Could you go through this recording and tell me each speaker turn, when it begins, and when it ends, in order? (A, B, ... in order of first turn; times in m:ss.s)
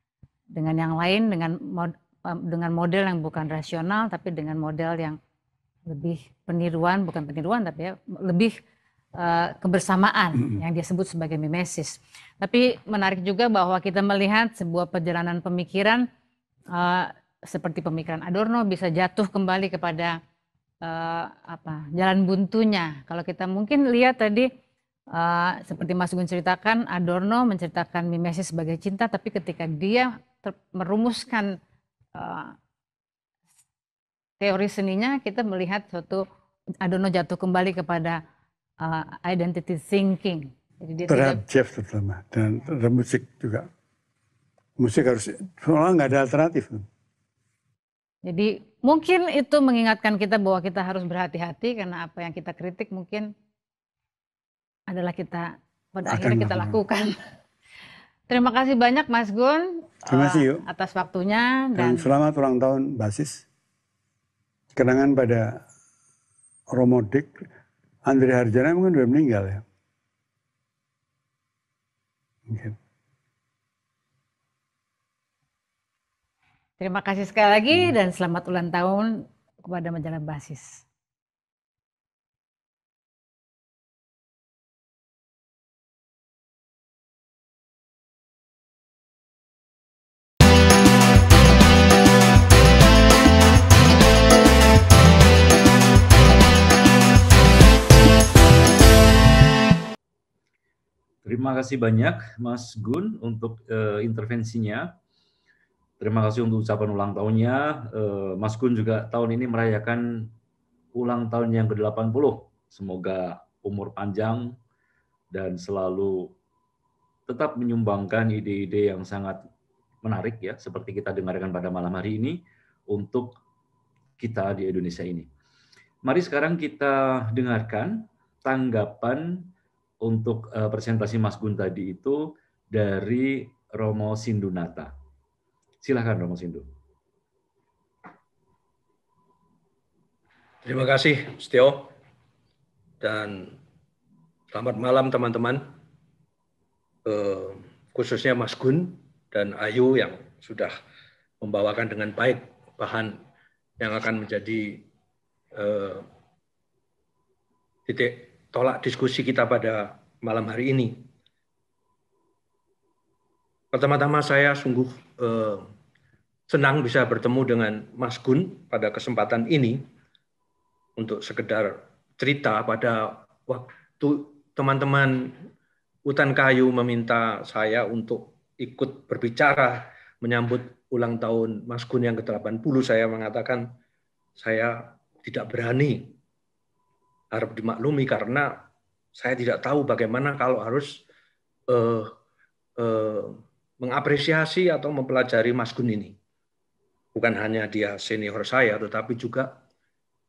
0:00.6-0:05.2 A
0:05.9-0:08.6 A
0:09.2-0:16.1 A
0:16.7-0:20.2 A
0:20.8-0:24.5 A
0:25.1-0:31.6 A
0:32.2-0:32.5 A
0:34.4-0:36.2 A
0:36.8-0:38.2 A
0:38.8-0:41.4 A
0:41.1-0:43.7 B
0:44.8-0:46.9 B
0:48.2-0:53.3 A
0:54.9-0:57.2 A
0:56.1-0:56.8 B
0:58.3-1:02.1 A
1:00.1-1:00.6 B
1:01.8-1:03.4 B
1:04.7-1:05.6 B
1:06.7-1:07.5 B
1:08.0-1:09.6 B
1:12.5-1:12.8 B
1:16.8-1:20.8 A
1:41.2-1:44.9 C
1:46.0-1:50.3 C
1:51.0-1:54.5 C
1:55.3-1:56.3 C
1:57.3-1:59.4 C
2:00.0-2:03.4 C
2:04.2-2:05.3 C
2:06.0-2:09.5 C
2:10.0-2:14.9 C
2:15.8-2:16.7 C
2:20.6-2:21.9 D
2:23.0-2:23.5 D
2:24.5-2:25.6 D
2:27.1-2:30.7 D
2:31.4-2:33.1 D
2:33.8-2:34.8 D
2:35.6-2:36.0 D
2:37.9-2:41.0 D
2:43.7-2:45.6 D
2:46.5-2:49.8 D
2:51.0-2:55.3 D
2:56.0-3:03.6 D
3:04.4-3:06.1 D
3:07.3-3:08.5 D
3:09.2-3:11.0 D
3:11.7-3:12.1 D
3:12.8-3:16.1 D
3:17.2-3:19.5 D